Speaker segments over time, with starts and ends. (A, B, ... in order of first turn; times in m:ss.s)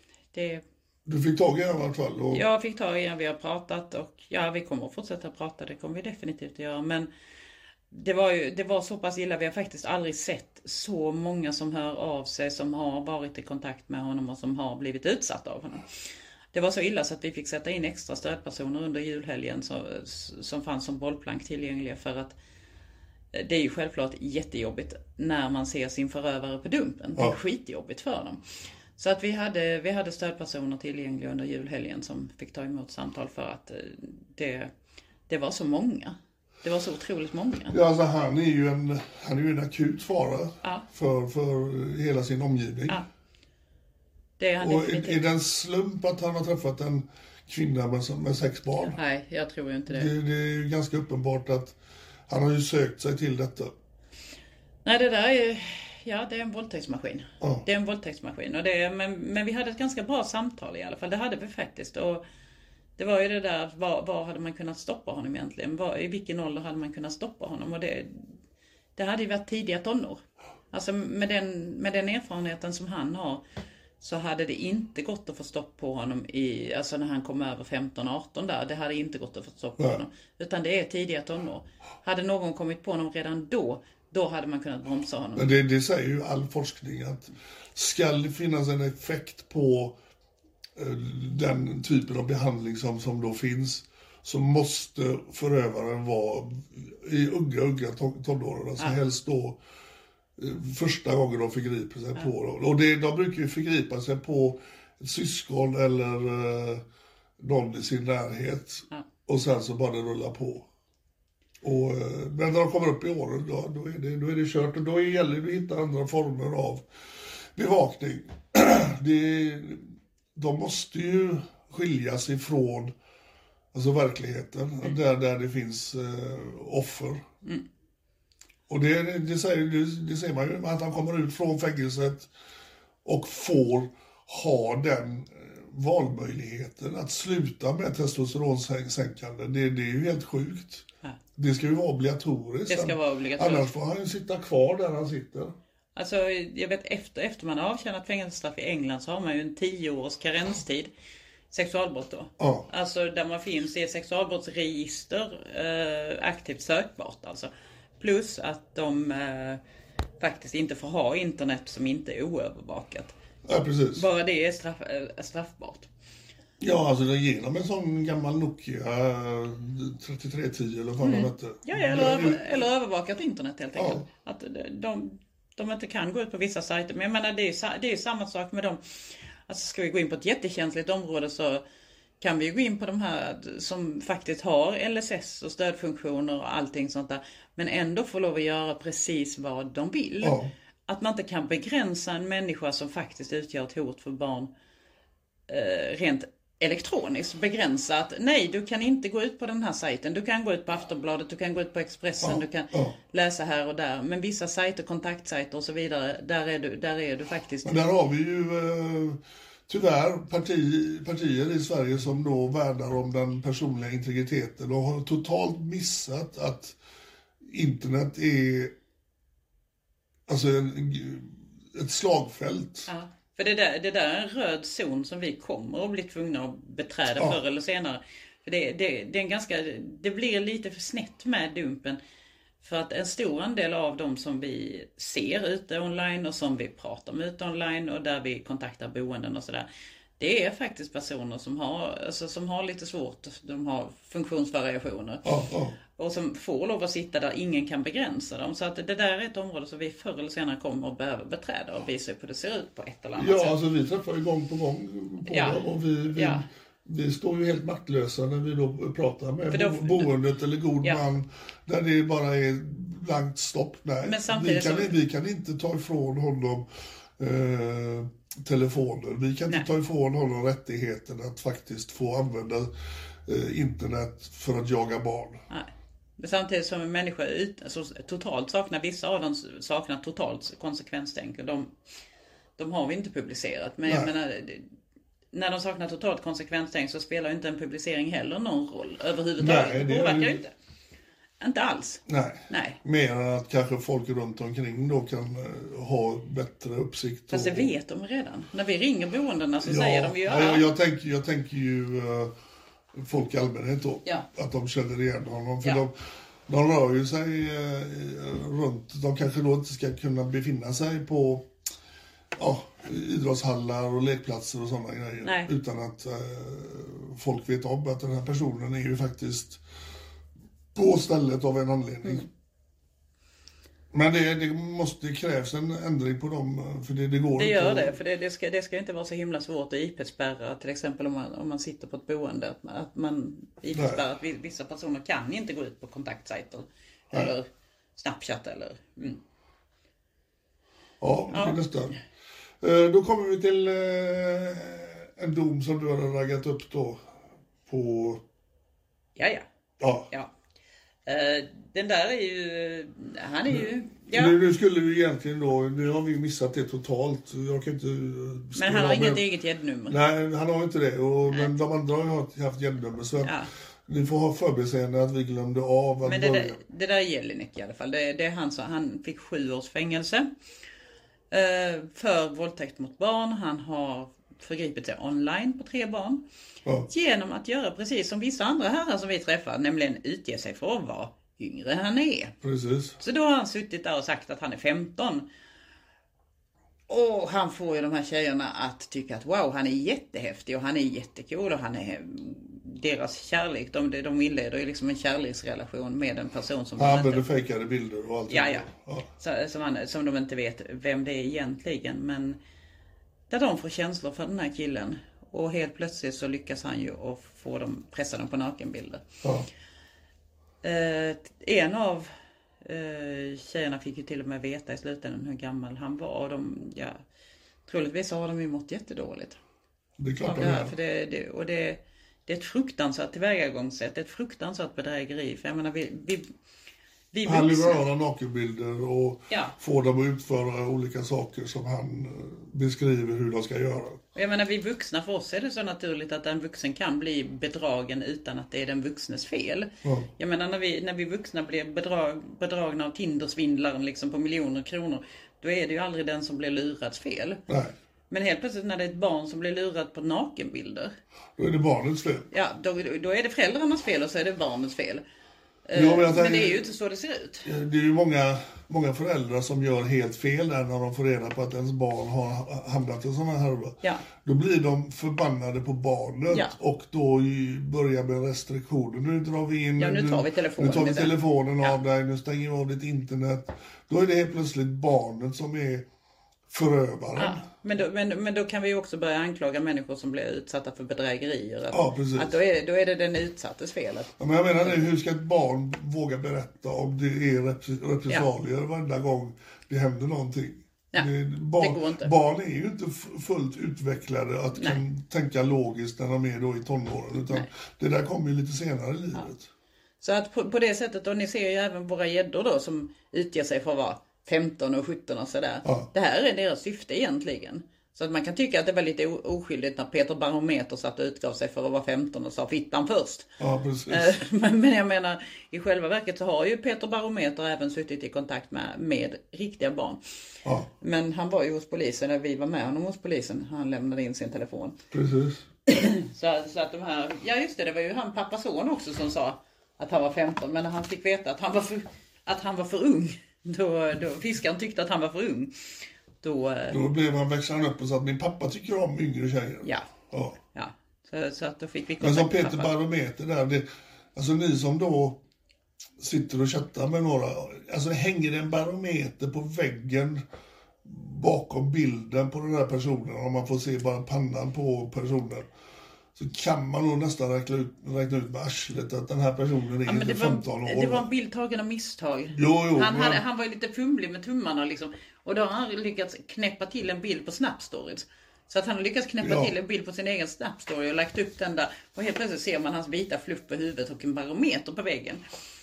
0:00.3-0:00.6 A
0:01.1-0:02.4 B
0:02.3-0:07.1 A
0:07.9-0:15.8 A
0:16.5-0:22.4 A
0:23.3-0:28.4 A
0:29.0-0:34.7 A
0:35.3-0:37.8 A
0:37.7-0:43.0 B
0:44.4-0:45.2 A
0:44.6-0:49.0 B
0:48.8-0:50.1 A
0:49.9-0:51.8 B
0:52.3-0:53.7 B
0:54.8-1:02.2 A
1:03.0-1:08.2 A
1:09.0-1:10.2 A
1:10.7-1:13.4 A
1:14.0-1:25.5 A
1:19.8-1:20.0 B
1:25.4-1:30.0 B
1:30.8-1:39.6 B
1:40.4-1:46.8 B
1:47.4-1:50.7 B
1:51.6-1:56.8 B
1:57.6-2:02.9 B
2:03.7-2:07.2 B
2:08.7-2:12.3 B
2:13.0-2:25.5 B
2:22.7-2:23.7 A
2:26.0-2:30.9 A
2:31.5-2:37.5 A
2:32.4-2:32.7 B
2:38.0-2:39.6 A
2:40.2-2:43.2 A
2:43.4-2:44.0 B
2:44.0-2:45.9 A
2:46.6-2:52.7 B
2:51.0-2:58.8 A
2:53.8-2:54.1 B
2:59.5-3:01.6 A
3:02.2-3:14.5 A
3:10.2-3:10.5 B
3:15.5-3:27.7 A
3:22.2-3:23.0 B
3:27.6-3:36.8 B
3:37.4-3:38.7 B
3:40.3-3:42.9 B
3:42.9-3:52.0 A
3:52.6-3:59.7 A
4:00.2-4:05.3 A
4:05.2-4:05.8 B
4:06.0-4:13.6 A
4:13.2-4:26.7 B
4:15.3-4:15.6 A
4:16.1-4:16.4 A
4:19.5-4:20.1 A
4:24.0-4:25.0 A
4:27.2-4:32.7 B
4:33.2-4:35.4 B
4:35.5-4:41.7 A
4:42.6-4:44.7 A
4:43.9-4:44.1 B
4:45.3-4:50.5 A
4:49.4-4:50.4 B
4:51.4-4:52.8 A
4:52.1-4:57.7 B
4:57.3-5:00.7 A
4:59.6-5:02.3 B
5:02.9-5:05.9 B
5:06.5-5:11.5 B
5:12.4-5:19.6 B
5:15.2-5:15.5 A
5:20.8-5:22.3 B
5:23.9-5:28.0 B
5:27.4-5:39.2 A
5:33.7-5:34.0 B
5:41.0-5:42.0 B
5:41.3-5:41.6 A
5:42.6-5:47.0 B
5:47.7-5:48.2 B
5:49.2-5:49.4 A
5:49.8-5:50.1 B
5:51.1-5:54.4 A
5:53.5-5:59.2 B
5:58.6-6:00.0 A
5:59.9-6:06.6 B
6:01.3-6:01.5 A
6:03.2-6:03.5 A
6:06.0-6:10.3 A
6:11.3-6:16.2 A
6:16.9-6:22.3 A
6:22.4-6:23.0 B
6:23.0-6:25.3 A
6:26.9-6:37.2 A
6:36.8-6:39.1 B
6:38.3-6:42.4 A
6:43.3-6:49.0 A
6:50.6-6:52.1 A
6:52.6-6:57.0 A
6:57.7-6:59.4 A
7:00.0-7:00.7 B
7:00.2-7:06.3 A
7:07.1-7:07.8 A
7:07.2-7:14.0 B
7:09.3-7:09.6 A
7:14.2-7:27.4 A
7:19.8-7:20.1 B
7:27.5-7:27.8 B
7:28.1-7:30.9 A
7:31.4-7:32.3 B
7:32.3-7:35.0 A
7:35.7-7:37.5 A
7:35.7-7:36.7 B
7:37.4-7:55.9 B
7:49.8-7:51.8 A
7:56.5-7:57.5 B
7:57.2-8:04.9 A
8:01.7-8:02.4 B
8:04.2-8:19.5 B
8:10.9-8:12.1 A
8:14.6-8:14.8 A
8:20.0-8:33.3 A
8:33.4-8:34.1 B
8:33.9-8:40.0 A
8:40.8-8:44.8 A
8:44.9-8:45.5 B
8:45.7-8:55.5 A
8:56.2-8:56.8 A
8:56.7-9:00.4 B
9:00.5-9:02.7 A
9:02.0-9:05.2 B
9:06.0-9:10.2 B
9:10.8-9:15.5 B
9:16.2-9:21.1 B
9:19.8-9:35.2 A
9:22.4-9:23.2 B
9:29.2-9:29.5 B